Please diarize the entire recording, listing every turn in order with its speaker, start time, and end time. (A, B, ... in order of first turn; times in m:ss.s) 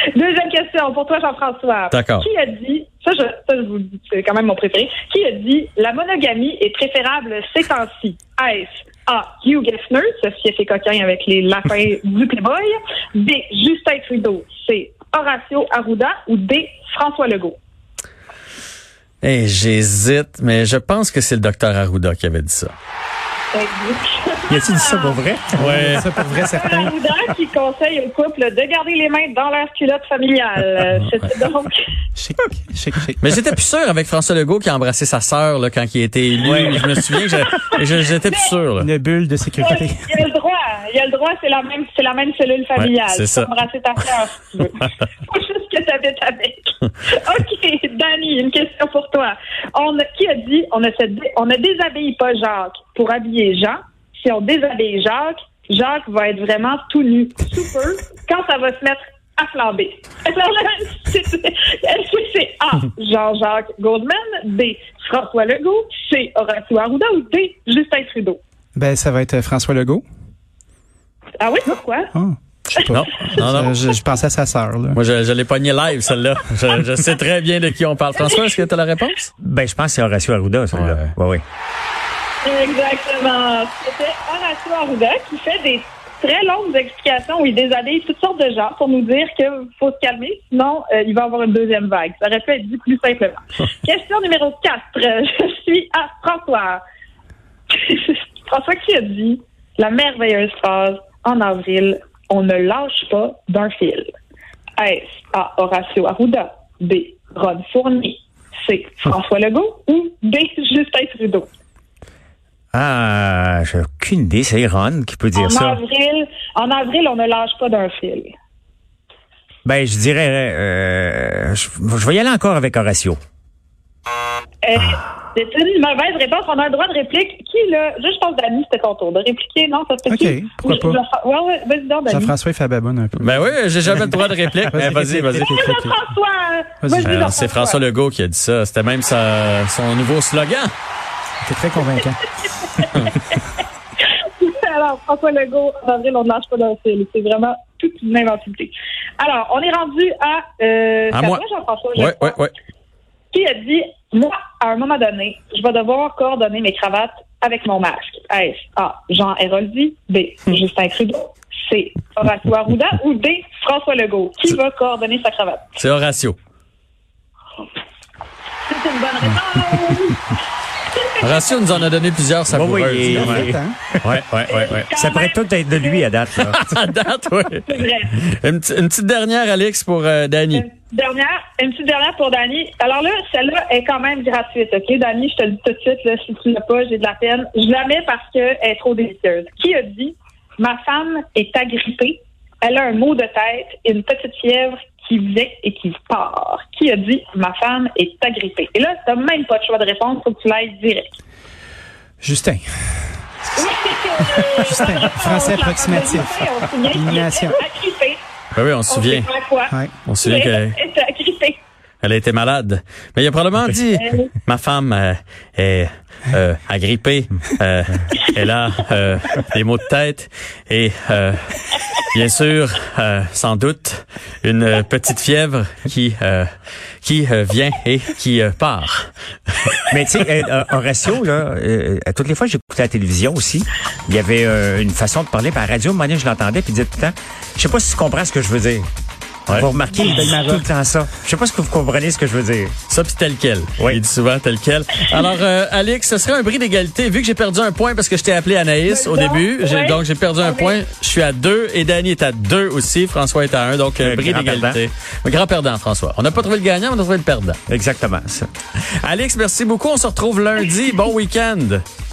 0:00.1-0:17.6 A
0:01.9-0:02.2 B
0:19.2-0:22.7 B
0:23.5-0:25.2 A
0:24.5-0:26.2 C
0:25.6-0:26.2 B
0:25.6-0:26.9 D
0:26.3-0:31.8 A
0:32.2-0:33.3 D
0:33.2-0:38.9 B
0:36.5-0:36.8 D
0:38.3-0:38.5 A
0:38.8-0:40.1 D
0:39.6-1:08.4 A
0:42.8-0:43.5 B
1:08.8-1:10.0 D
1:11.4-1:12.1 A
1:12.8-1:13.8 B
1:13.3-1:15.0 D
1:14.9-1:19.3 B
1:19.4-1:21.4 C
1:20.7-1:21.1 B
1:22.4-1:36.8 A
1:37.7-1:44.1 A
1:44.8-1:51.5 A
1:52.7-1:55.7 C
1:55.4-1:58.3 A
1:59.6-2:03.2 C
2:04.6-2:12.3 A
2:10.1-2:11.0 D
2:12.1-2:16.0 D
2:13.2-2:15.7 B
2:15.5-2:17.8 A
2:16.8-2:17.2 D
2:17.0-2:20.7 B
2:21.4-2:22.2 D
2:21.9-2:23.4 A
2:24.0-2:32.4 A
2:31.1-2:31.4 B
2:32.0-2:32.5 B
2:33.3-2:45.7 A
2:45.8-2:46.4 B
2:48.7-2:50.3 A
2:50.9-2:51.8 A
2:51.2-2:53.5 B
2:52.5-2:54.1 C
2:53.1-2:53.8 D
2:54.0-2:54.9 B
2:54.5-2:56.1 A
2:54.9-2:56.7 C
2:56.4-3:00.6 B
2:57.7-2:58.1 A
3:00.5-3:21.1 A
3:22.2-3:22.7 D
3:23.6-3:28.2 A
3:24.3-3:27.6 D
3:28.5-3:29.3 B
3:28.9-3:31.6 A
3:30.1-3:30.8 B
3:32.0-3:46.5 B
3:34.0-3:34.3 A
3:47.0-3:49.1 B
3:49.9-3:58.9 C
3:59.5-4:02.8 C
3:59.9-4:00.7 D
4:02.9-4:17.6 B
4:08.9-4:10.8 A
4:14.0-4:14.8 C
4:17.7-4:18.5 C
4:19.0-4:21.8 B